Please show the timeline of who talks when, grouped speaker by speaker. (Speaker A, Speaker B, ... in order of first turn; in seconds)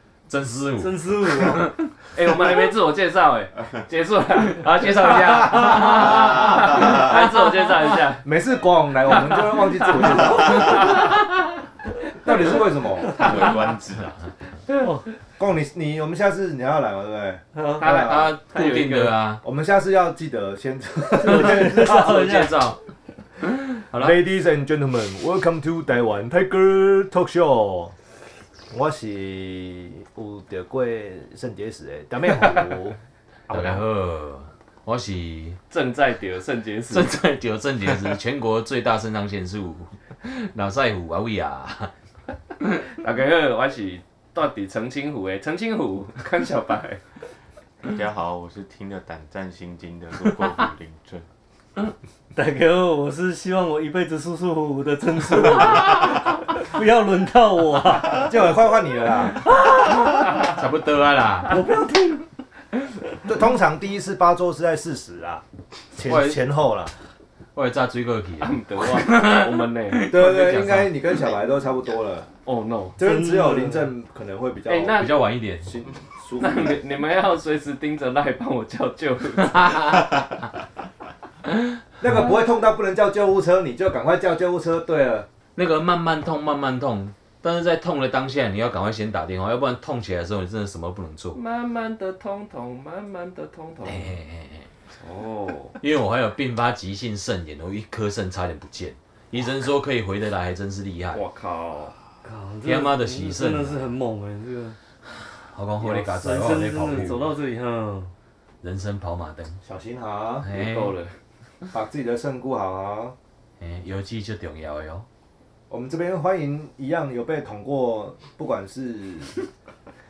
Speaker A: 0.3-1.9, 5.0-7.2, 17.8-19.4, 21.3-22.8, 23.7-24.2, 33.5-35.6, 36.9-41.9, 60.0-61.6, 66.0-66.5, 67.5-70.9, 74.9-75.7, 79.4-80.3, 85.6-91.4, 93.8-94.7, 95.8-101.2, 102.7-103.9, 105.2-107.3, 108.6-109.6, 110.4-111.0, 113.6-115.1
Speaker B: 0.8-1.7, 17.5-17.8, 21.2-22.6, 52.4-58.4, 61.5-62.2, 73.0-73.9, 102.2-104.8, 105.8-108.1
Speaker C: 2.1-8.2, 9.2-11.1, 17.8-19.2, 35.7-37.1, 42.9-47.0, 68.4-70.9, 72.5-73.0, 74.7-75.1, 76.4-80.1, 91.3-94.1, 95.0-95.8, 101.1-102.0, 110.5-111.2
Speaker D: 8.2-11.0, 12.2-13.2, 15.4-18.3, 19.4-22.2, 23.9-27.9, 28.7-33.9, 58.1-59.4, 63.2-65.4, 65.9-66.9, 70.1-72.3, 73.0-75.0, 75.6-76.8, 82.0-85.3, 109.6-110.5, 111.7-113.2, 115.7-119.4
Speaker E: 13.1-14.3, 47.8-51.2